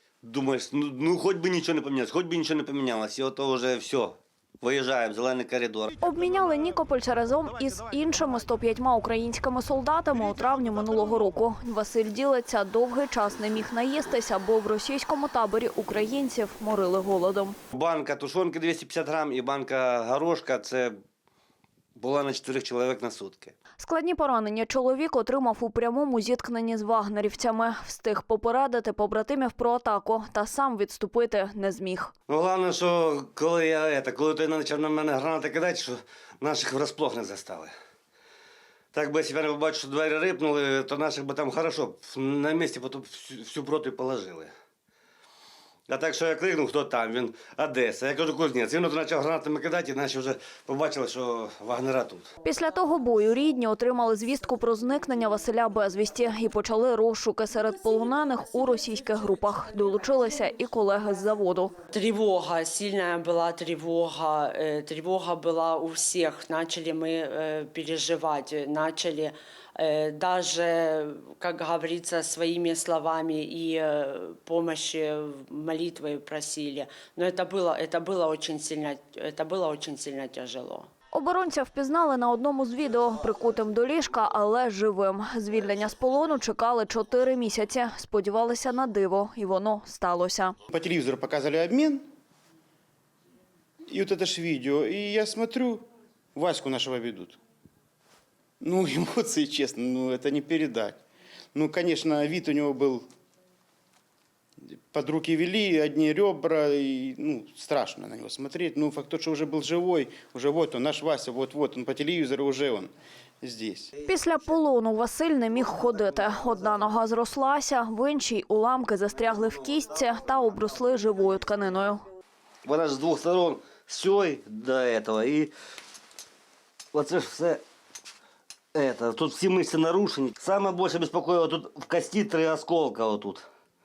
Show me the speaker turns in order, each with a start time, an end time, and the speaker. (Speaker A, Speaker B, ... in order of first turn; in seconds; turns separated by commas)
Speaker A: 0.2-6.0, Speaker B: 6.0-17.6, Speaker A: 17.7-20.9, Speaker A: 21.9-23.6, Speaker B: 23.8-32.1, Speaker A: 32.3-37.7, Speaker A: 38.9-44.5, Speaker A: 45.9-52.3, Speaker B: 52.4-61.7, Speaker C: 61.9-80.9, Speaker B: 81.1-90.6, Speaker D: 90.7-92.0, Speaker D: 93.9-95.8, Speaker D: 96.3-97.4, Speaker D: 98.6-101.0, Speaker D: 101.5-103.0, Speaker D: 104.9-113.9, Speaker B: 114.0-122.0, Speaker A: 122.6-125.5, Speaker A: 126.9-127.6, Speaker A: 128.7-133.5